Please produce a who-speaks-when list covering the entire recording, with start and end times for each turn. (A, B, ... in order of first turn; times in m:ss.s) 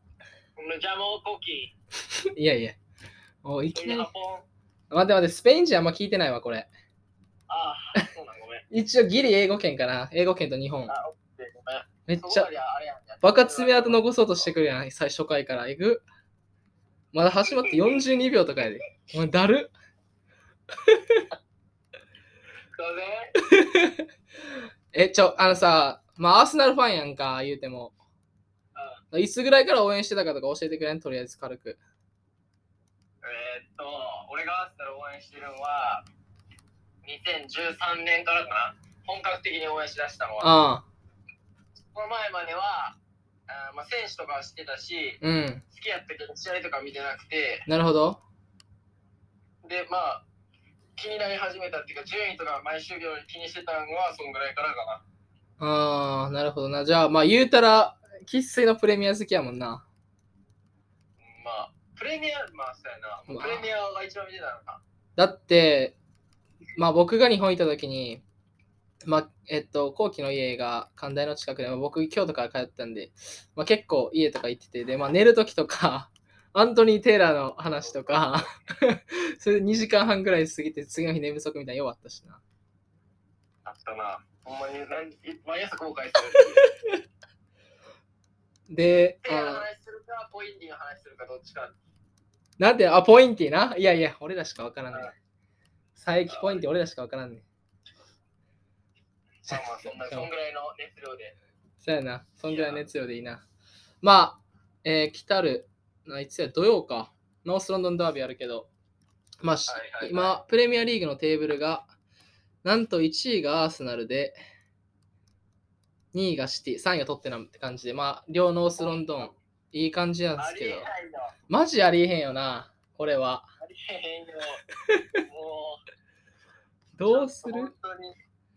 0:00.6-0:01.7 A
0:02.3-0:02.8 B
0:03.4-0:04.1 B
0:03.7-0:04.4 A
0:04.9-0:06.7 B
0:07.5-0:08.6 A
0:08.7-0:10.9 B
0:10.9-0:14.5 A
0:12.1-0:12.5 B
0:13.2-0:16.0 B
0:17.1-0:19.7 B
0:17.5-0:18.0 A
0:20.8-0:21.2 B
0:22.8-0:23.3 A
0:23.4-0:24.0 B
0:24.9-0:27.9 B
0:28.7-0:29.0 A
0:29.1-0:31.8 B
0:33.2-0:36.0 A
0:37.0-0:40.5 A
0:40.4-0:40.8 B
0:41.9-0:43.0 A
0:43.5-0:47.7 A
0:45.2-0:45.6 B
0:47.7-0:48.2 B
0:49.6-0:50.2 A
0:51.0-0:55.0 A
0:55.6-0:59.8 B
1:01.2-1:04.8 A
1:03.3-1:03.7 B
1:05.2-1:06.0 B
1:06.8-1:08.2 B
1:09.0-1:22.4 B
1:17.8-1:18.5 A
1:23.6-1:26.7 A
1:26.3-1:27.0 B
1:28.7-1:29.6 B
1:29.2-1:31.8 A
1:32.6-1:35.1 B
1:36.0-1:37.4 B
1:36.3-1:36.6 A
1:39.4-1:41.4 A
1:39.5-1:40.3 B
1:41.8-1:43.4 B
1:42.5-1:42.8 A
1:44.0-1:48.7 B
1:49.4-1:51.9 B
1:49.7-1:50.4 A
1:52.6-1:54.4 B
1:56.1-2:00.9 B
1:58.8-1:59.3 A
2:00.4-2:01.3 A
2:01.5-2:03.4 B
2:03.6-2:04.6 A
2:04.9-2:05.2 B
2:05.2-2:05.8 A
2:07.0-2:07.7 B
2:07.0-2:08.1 A